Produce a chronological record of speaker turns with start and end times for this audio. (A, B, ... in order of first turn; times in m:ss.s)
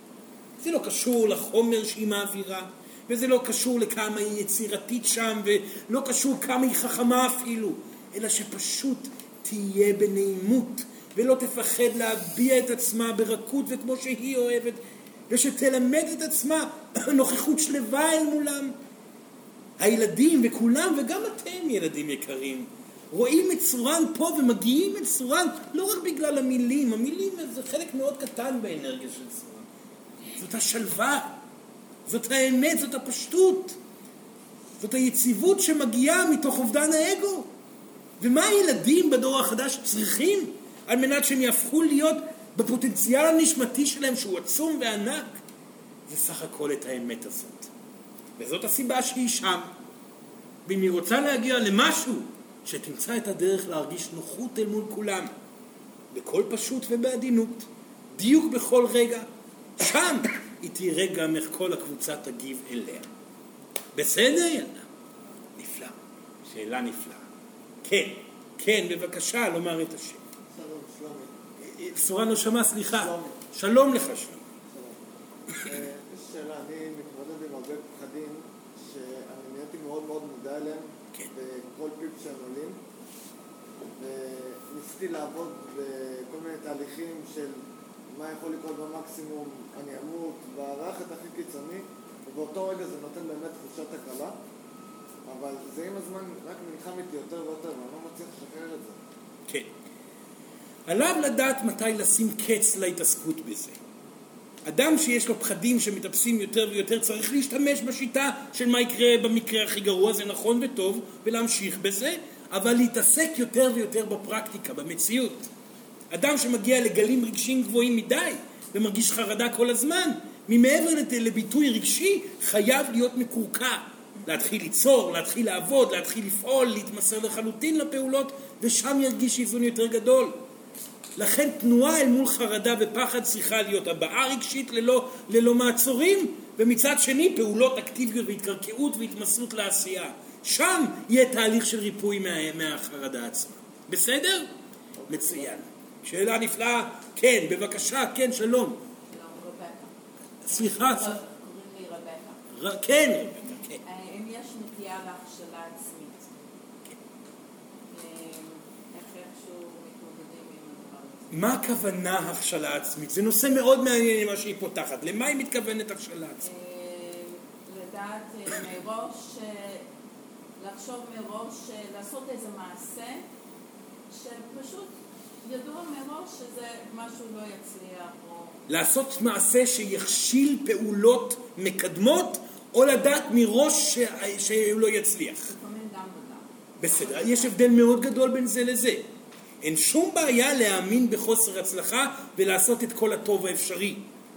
0:00.6-0:18.8 A
0:19.8-0:29.6 A
0:30.3-0:31.3 A
0:32.0-0:33.8 A
0:34.8-0:37.5 A
0:38.2-0:45.4 A
0:46.1-0:47.7 A
0:48.4-0:49.7 A
0:50.6-0:55.3 A
0:56.1-0:59.3 A
0:59.8-1:03.1 A
1:03.9-1:04.8 A
1:05.6-1:05.9 A
1:06.4-1:07.2 A
1:07.8-1:10.2 A
1:10.5-1:11.3 B
1:11.6-1:14.4 A
1:12.9-1:13.3 B
1:15.5-1:22.8 B
1:24.0-1:27.6 B
1:28.1-1:34.3 B
1:35.3-1:39.0 B
1:40.9-1:43.8 A
1:44.6-1:55.5 A
1:56.1-2:10.4 A
2:11.2-2:24.5 A
2:25.1-2:28.8 A
2:29.1-2:29.9 C
2:30.4-2:31.2 A
2:30.5-2:32.4 C
2:32.5-2:33.8 A
2:33.8-2:36.2 C
2:37.9-2:41.2 C
2:41.3-2:46.4 A
2:46.4-2:49.8 C
2:50.6-2:53.2 C
2:54.1-2:54.9 C
2:55.4-2:58.6 C
2:58.7-3:05.5 A
3:05.5-3:07.5 C
3:06.8-3:09.0 A
3:09.6-3:14.0 A